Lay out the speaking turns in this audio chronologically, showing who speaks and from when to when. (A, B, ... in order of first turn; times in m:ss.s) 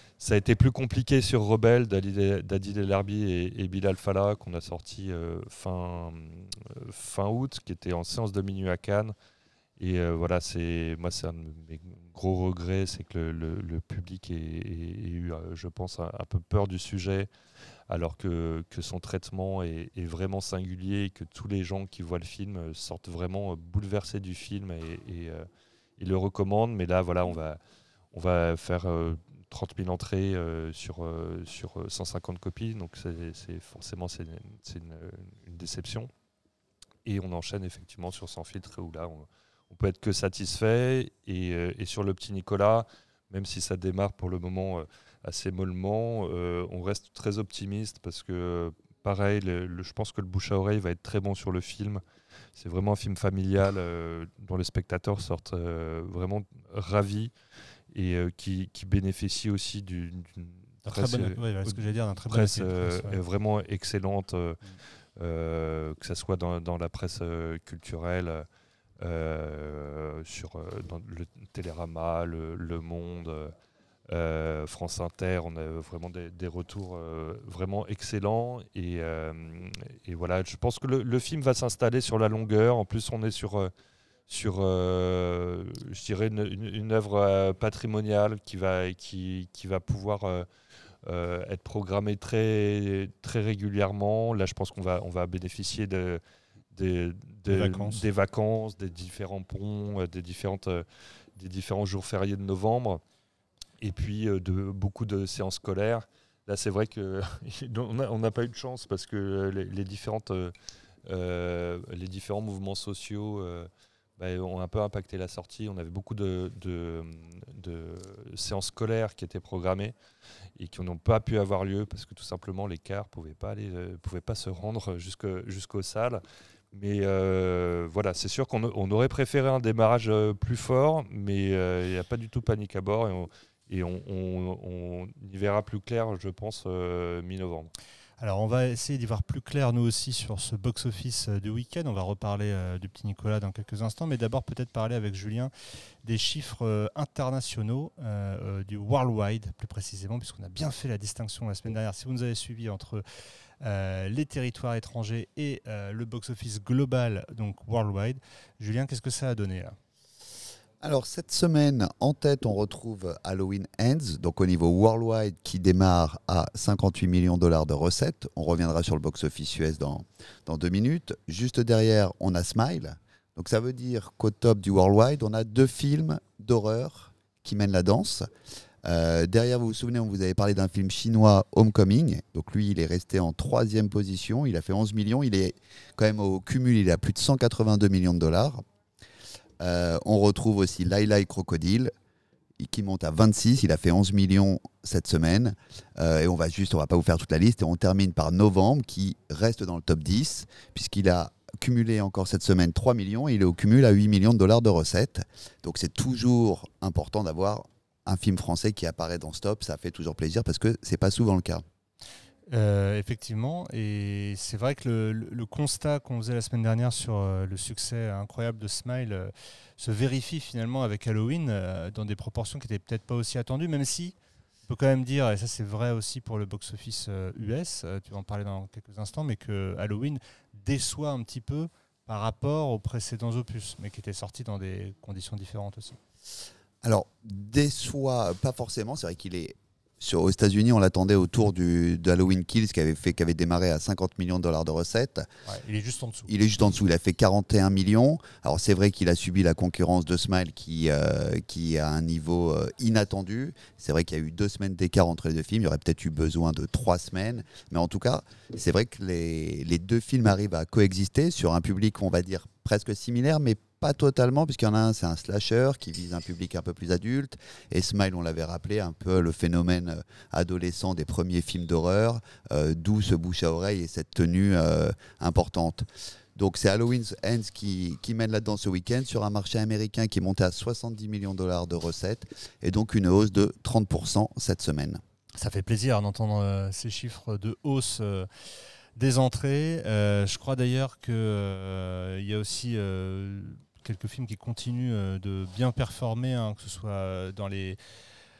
0:00.2-0:09.1 A
0:09.8-0:17.3 A
0:17.9-0:25.5 A
0:26.0-0:27.6 A
0:28.1-0:36.1 A
0:37.0-0:52.0 A
0:52.5-0:57.3 A
0:57.9-1:04.6 A
1:00.8-1:03.2 B
1:05.2-1:08.4 A
1:09.0-1:13.5 A
1:14.1-1:23.7 A
1:24.3-1:30.5 A
1:31.0-1:36.2 A
1:36.7-1:40.8 A
1:37.5-1:38.0 B
1:41.4-1:43.0 A
1:43.8-1:50.5 A
1:51.0-1:59.9 A
2:00.6-2:06.2 A
2:06.7-2:17.7 A
2:18.2-2:25.5 B
2:26.0-2:33.0 B
2:33.6-2:39.8 B
2:40.8-2:58.3 C
2:58.8-3:08.6 C
3:09.6-3:11.9 C
3:12.6-3:31.6 C
3:32.5-3:44.1 B
3:44.7-3:56.0 B
3:56.8-4:05.3 C
4:05.5-4:06.3 B
4:06.3-4:45.0 C
4:45.4-4:48.3 B
4:49.0-4:57.8 B